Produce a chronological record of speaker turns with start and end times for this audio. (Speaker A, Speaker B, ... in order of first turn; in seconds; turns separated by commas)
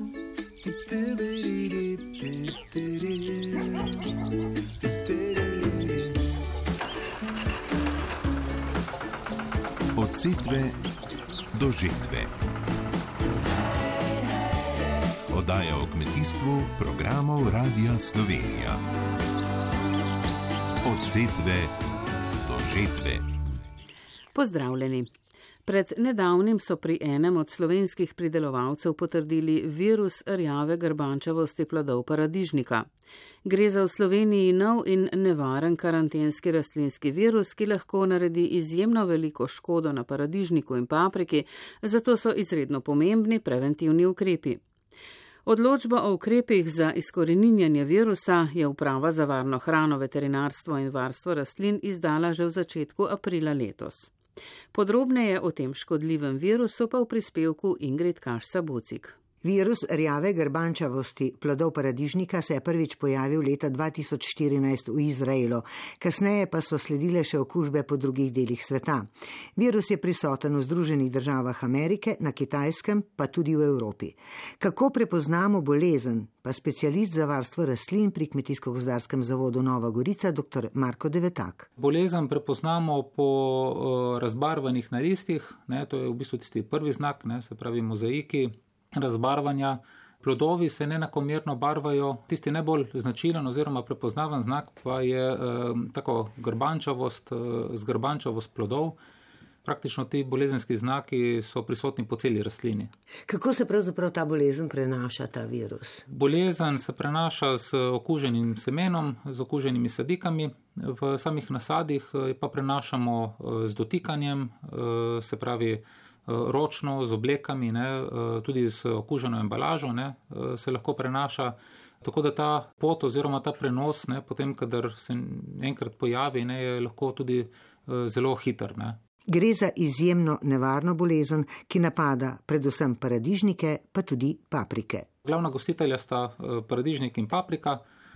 Speaker A: 0.8-1.2, Speaker B: 10.0-10.8, Speaker B: 11.5-12.3, Speaker B: 15.3-18.8, Speaker B: 20.9-21.7, Speaker B: 22.4-23.3, Speaker C: 24.3-25.1, Speaker C: 25.7-32.9, Speaker C: 33.5-44.6, Speaker C: 45.5-54.1, Speaker C: 54.7-59.1, Speaker A: 59.4-81.7, Speaker D: 81.8-99.0, Speaker D: 99.7-102.9, Speaker A: 103.3-106.0, Speaker D: 106.1-129.0, Speaker A: 129.3-135.1, Speaker D: 135.2-137.8